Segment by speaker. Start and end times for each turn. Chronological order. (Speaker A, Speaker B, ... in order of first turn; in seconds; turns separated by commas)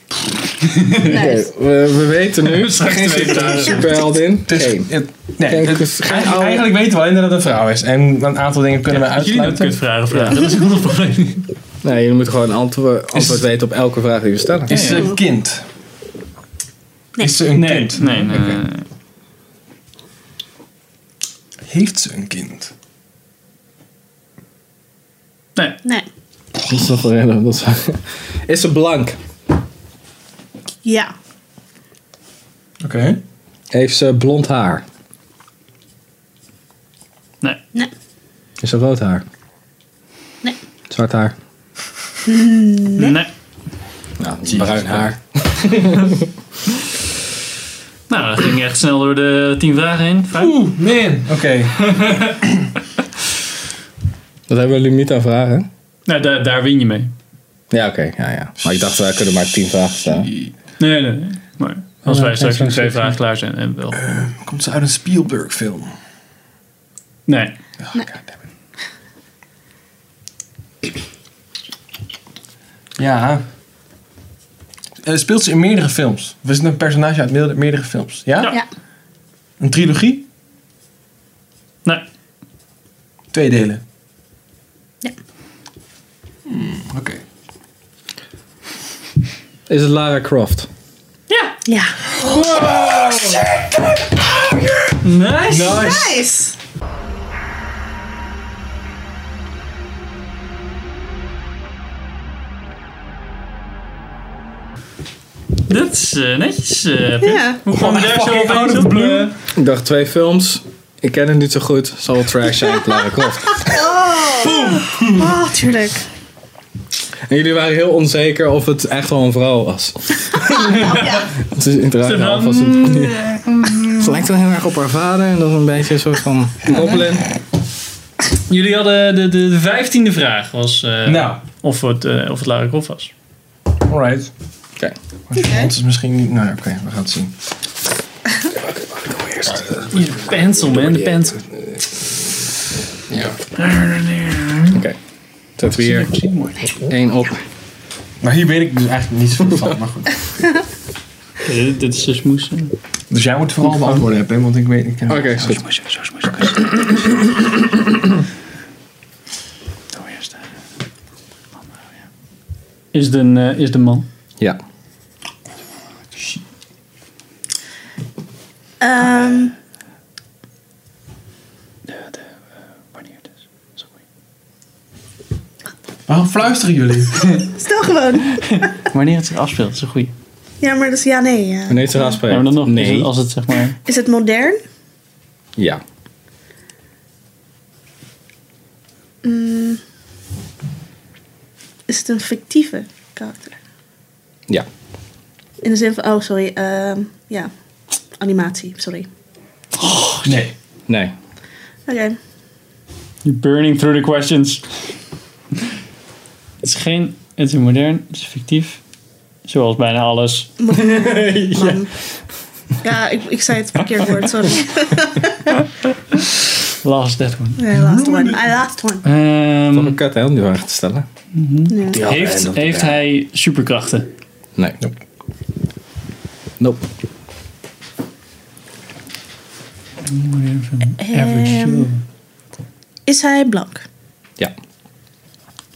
Speaker A: 0.6-1.1, Speaker B: 1.0-1.5, Speaker C: 1.0-4.9, Speaker A: 2.4-4.0, Speaker D: 4.5-9.8, Speaker C: 5.5-6.7, Speaker A: 8.9-11.5, Speaker C: 10.1-10.4, Speaker C: 11.8-15.1, Speaker D: 13.1-13.4, Speaker D: 14.7-15.6, Speaker A: 14.7-15.1, Speaker B: 14.8-15.2, Speaker D: 17.2-18.6, Speaker C: 17.5-18.2, Speaker A: 17.9-18.9, Speaker D: 21.7-22.7, Speaker C: 26.6-29.2, Speaker B: 30.8-31.1, Speaker D: 32.8-33.2, Speaker C: 33.7-34.8, Speaker C: 38.6-39.3, Speaker C: 40.9-41.4, Speaker B: 42.3-43.2, Speaker A: 43.0-43.3, Speaker C: 44.2-46.3, Speaker D: 44.5-45.1, Speaker A: 48.1-50.5, Speaker D: 50.4-52.7, Speaker C: 54.5-55.7, Speaker A: 56.1-57.1, Speaker C: 57.7-60.3, Speaker D: 60.1-60.5, Speaker A: 60.8-64.0, Speaker D: 62.0-63.1, Speaker D: 63.9-65.9, Speaker A: 67.3-67.5, Speaker D: 67.8-68.3, Speaker D: 73.0-73.4, Speaker D: 75.0-78.6, Speaker D: 79.6-80.2, Speaker D: 83.3-83.8, Speaker D: 86.5-87.2, Speaker C: 89.7-90.7, Speaker A: 91.3-91.6, Speaker B: 91.7-92.1, Speaker D: 92.1-93.8, Speaker A: 95.0-95.8, Speaker D: 95.5-96.2, Speaker B: 95.5-96.6, Speaker A: 105.7-109.3, Speaker B: 107.2-107.6, Speaker D: 107.7-109.3, Speaker C: 109.5-113.8, Speaker B: 113.5-116.0, Speaker C: 114.4-115.3, Speaker C: 117.3-127.3, Speaker B: 120.5-121.3, Speaker A: 122.0-124.0, Speaker A: 128.5-133.1, Speaker D: 131.1-131.4, Speaker D: 133.9-134.3, Speaker D: 135.3-137.3, Speaker B: 135.3-135.7, Speaker C: 138.5-139.9, Speaker A: 139.9-141.4, Speaker C: 140.5-141.8, Speaker D: 143.1-143.4, Speaker A: 143.6-144.8, Speaker C: 145.6-146.2, Speaker A: 145.7-146.9, Speaker C: 146.9-147.4, Speaker D: 148.2-150.2, Speaker A: 151.4-152.7, Speaker D: 153.1-155.3, Speaker C: 155.1-155.6, Speaker A: 155.3-157.2, Speaker A: 159.9-160.4, Speaker A: 162.9-164.1, Speaker B: 168.8-169.5, Speaker A: 171.9-172.2, Speaker A: 173.0-173.2, Speaker D: 176.1-177.3, Speaker B: 177.5-178.7, Speaker A: 178.4-180.1, Speaker B: 180.6-182.2, Speaker C: 181.7-183.1, Speaker A: 182.3-183.8, Speaker B: 183.8-184.6, Speaker C: 185.6-185.8, Speaker B: 189.2-189.8, Speaker B: 191.9-193.6, Speaker B: 195.6-197.5, Speaker B: 198.2-199.1, Speaker A: 199.8-200.4, Speaker D: 200.2-200.5, Speaker C: 200.9-201.1, Speaker B: 201.9-202.2, Speaker A: 203.2-204.7, Speaker A: 206.6-208.8, Speaker A: 209.4-210.5, Speaker B: 210.6-211.9, Speaker C: 210.7-211.8, Speaker B: 212.8-215.5, Speaker A: 216.1-217.7, Speaker B: 217.6-219.0, Speaker D: 217.7-218.6, Speaker A: 219.0-220.0, Speaker C: 219.7-221.1, Speaker A: 221.3-224.1, Speaker B: 221.7-222.1, Speaker C: 221.9-223.0, Speaker C: 226.6-226.8, Speaker A: 230.1-232.0, Speaker B: 231.0-231.9, Speaker B: 233.1-233.8